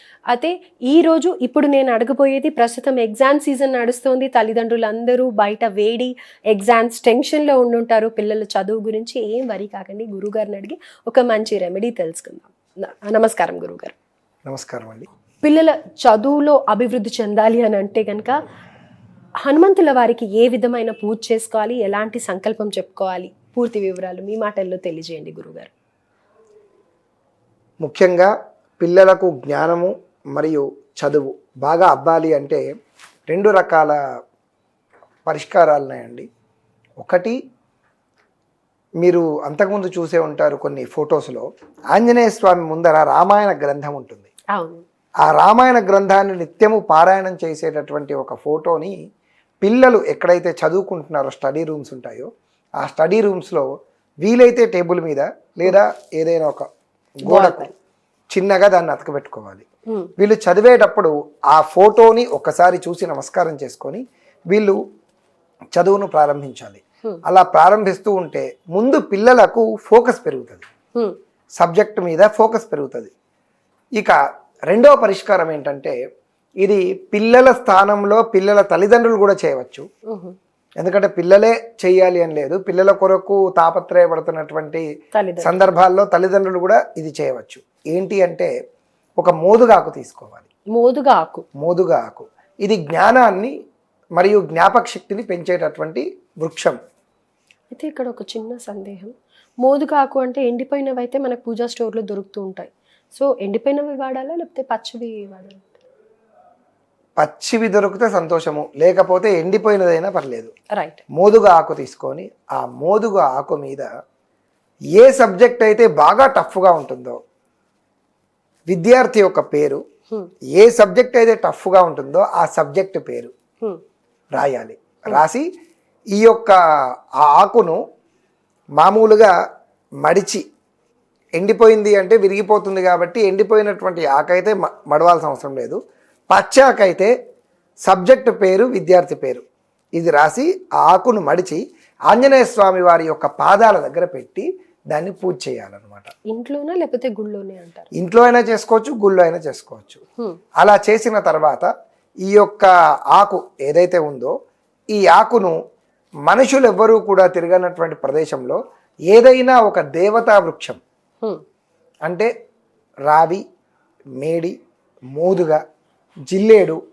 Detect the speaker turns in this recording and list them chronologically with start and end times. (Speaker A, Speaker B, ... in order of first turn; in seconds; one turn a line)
Speaker A: 0.3-13.9
Speaker B: 14.5-15.1
Speaker A: 15.4-18.4
Speaker A: 19.4-25.7
Speaker B: 27.8-32.6
Speaker B: 33.3-34.0
Speaker B: 35.3-36.3
Speaker B: 37.0-37.4
Speaker B: 39.0-44.3
Speaker A: 44.5-44.8
Speaker B: 45.2-49.0
Speaker B: 49.6-52.3
Speaker B: 52.8-53.7
Speaker B: 54.2-56.7
Speaker B: 57.2-57.7
Speaker A: 57.2-57.7
Speaker B: 58.3-59.7
Speaker B: 60.2-64.8
Speaker B: 65.7-70.7
Speaker B: 71.6-73.1
Speaker B: 74.7-76.0
Speaker B: 76.6-79.9
Speaker A: 80.1-80.4
Speaker B: 80.8-84.8
Speaker A: 85.1-85.6
Speaker B: 85.4-88.5
Speaker B: 89.2-90.5
Speaker A: 90.7-91.5
Speaker B: 91.6-93.5
Speaker B: 94.2-96.8
Speaker A: 97.7-105.8
Speaker B: 107.2-110.5
Speaker A: 110.7-111.0
Speaker B: 111.1-113.9
Speaker B: 115.0-117.2
Speaker B: 118.7-119.8
Speaker B: 120.6-123.3
Speaker B: 124.3-125.5
Speaker B: 126.1-126.6
Speaker B: 127.2-127.8
Speaker B: 128.8-129.3
Speaker B: 130.0-130.4
Speaker B: 131.4-135.8
Speaker B: 136.3-137.1
Speaker B: 137.8-139.4
Speaker B: 140.0-146.1
Speaker A: 146.3-147.9
Speaker B: 147.9-150.0
Speaker B: 150.6-151.7
Speaker B: 152.2-154.3
Speaker B: 154.9-155.6
Speaker B: 156.3-160.8
Speaker B: 163.1-163.4
Speaker B: 164.2-164.6
Speaker B: 165.1-165.6
Speaker B: 166.3-166.8